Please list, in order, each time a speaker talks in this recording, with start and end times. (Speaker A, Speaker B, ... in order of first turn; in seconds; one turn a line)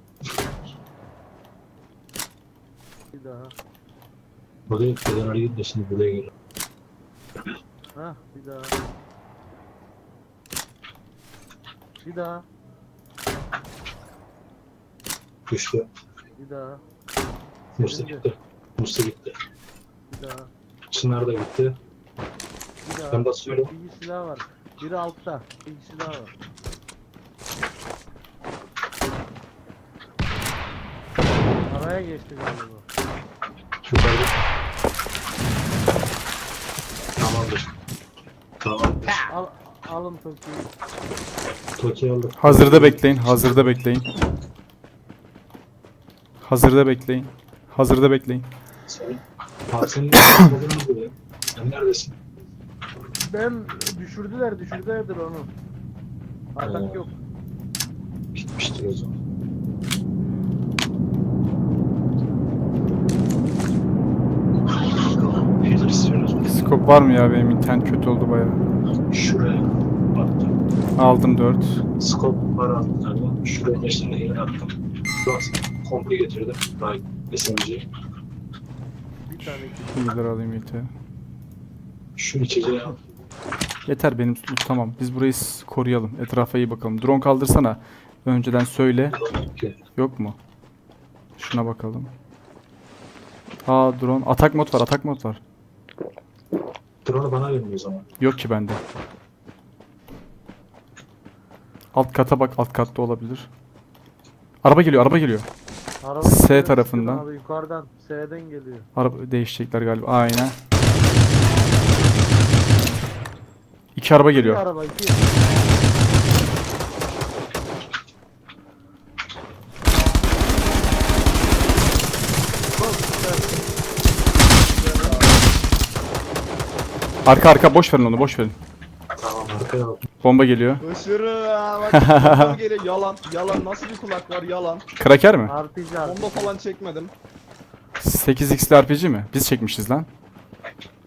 Speaker A: 3.1-3.5
Speaker B: 4.7-6.3
Speaker A: 8.0-8.8
Speaker A: 12.0-12.4
Speaker B: 15.5-15.9
Speaker A: 16.3-16.8
Speaker B: 17.8-19.3
Speaker A: 17.8-18.2
Speaker A: 20.1-20.5
Speaker B: 20.9-21.7
Speaker A: 22.8-26.3
Speaker B: 23.1-23.7
Speaker A: 31.7-32.8
Speaker B: 33.9-34.4
Speaker B: 37.2-37.8
Speaker B: 38.6-39.3
Speaker A: 39.3-40.7
Speaker B: 41.8-43.8
Speaker C: 42.4-44.1
Speaker C: 46.4-48.5
Speaker B: 48.9-52.2
Speaker A: 53.2-55.5
Speaker A: 56.5-57.2
Speaker B: 56.6-57.0
Speaker B: 58.3-59.1
Speaker A: 60.2-60.7
Speaker B: 64.7-66.7
Speaker C: 66.5-68.6
Speaker B: 69.1-70.6
Speaker C: 71.0-71.8
Speaker B: 72.0-77.8
Speaker A: 79.2-80.2
Speaker C: 79.9-80.9
Speaker B: 82.2-83.0
Speaker C: 83.8-89.2
Speaker B: 89.1-89.8
Speaker C: 90.0-90.4
Speaker C: 91.4-92.1
Speaker C: 93.7-95.4
Speaker B: 97.0-98.1
Speaker C: 98.2-98.8
Speaker C: 101.9-103.5
Speaker C: 104.6-105.5
Speaker A: 106.0-108.9
Speaker C: 106.2-107.2
Speaker C: 109.0-110.6
Speaker C: 114.0-114.6
Speaker A: 114.3-115.3
Speaker A: 122.7-123.6
Speaker D: 124.7-125.4
Speaker C: 127.2-128.5
Speaker B: 129.2-130.0
Speaker C: 130.2-130.8
Speaker D: 130.8-134.8
Speaker C: 131.9-132.6
Speaker C: 135.0-135.5
Speaker A: 135.4-136.6
Speaker D: 136.0-137.1
Speaker C: 138.0-140.1